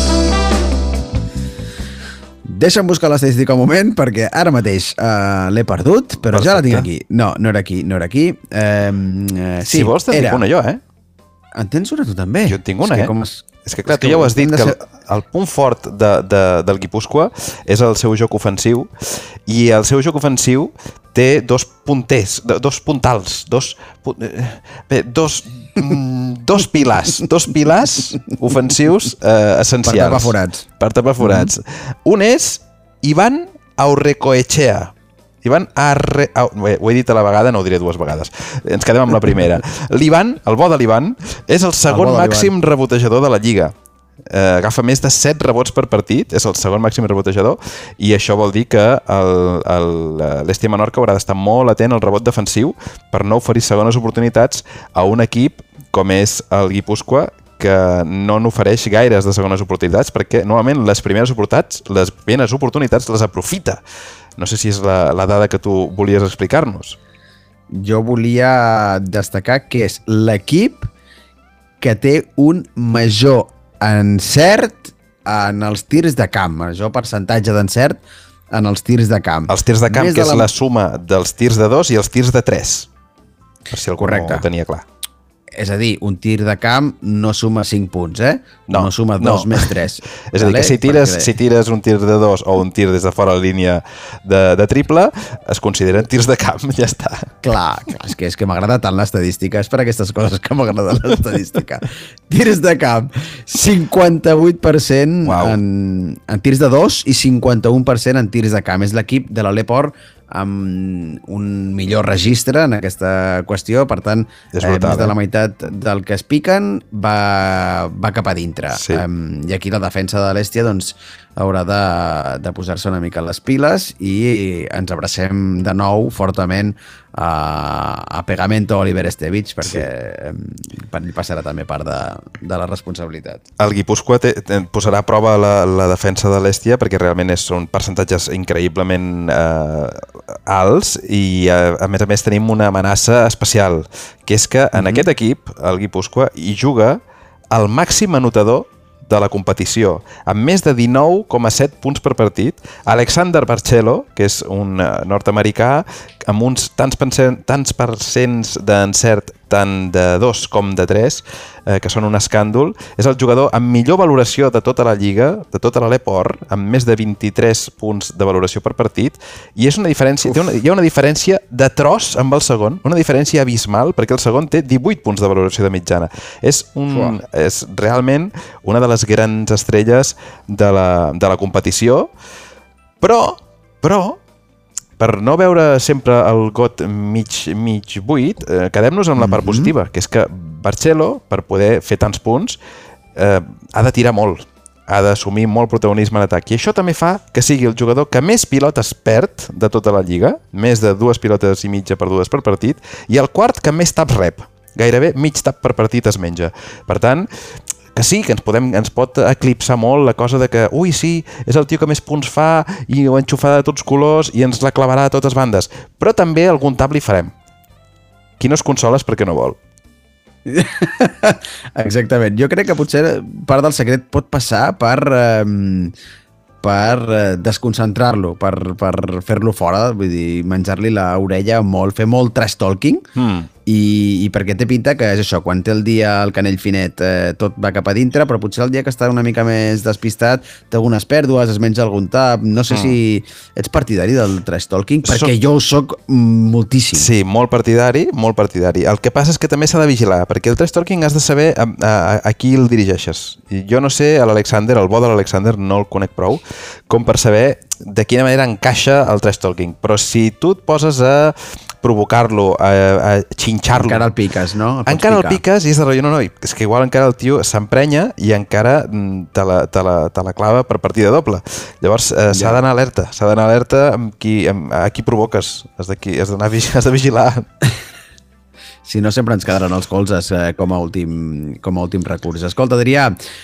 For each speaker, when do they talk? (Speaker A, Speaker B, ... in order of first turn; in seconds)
Speaker A: 2.5-10.5, 11.6-14.8, 29.9-30.6, 31.2-31.5, 41.9-42.5, 67.7-70.9, 71.8-80.5, 84.0-84.5, 85.5-91.3, 97.4-133.4, 144.8-145.1, 176.9-177.2, 189.2-189.7, 220.5-225.9, 226.6-233.0, 233.7-247.1, 263.7-265.4, 272.3-272.6, 278.8-283.1
Speaker B: 6.3-6.9, 9.7-10.8, 12.5-13.1, 13.6-43.7, 44.3-63.8, 64.4-67.0, 79.5-82.9, 83.7-84.8, 88.7-89.7, 90.3-97.3, 105.2-105.6, 114.5-115.1, 118.7-119.0, 133.6-147.0, 147.5-182.1, 183.0-184.2, 185.0-192.6, 193.2-207.3, 207.9-217.3, 218.4-219.6, 233.2-233.5, 242.7-243.0, 245.0-245.3, 246.9-264.1, 264.9-277.5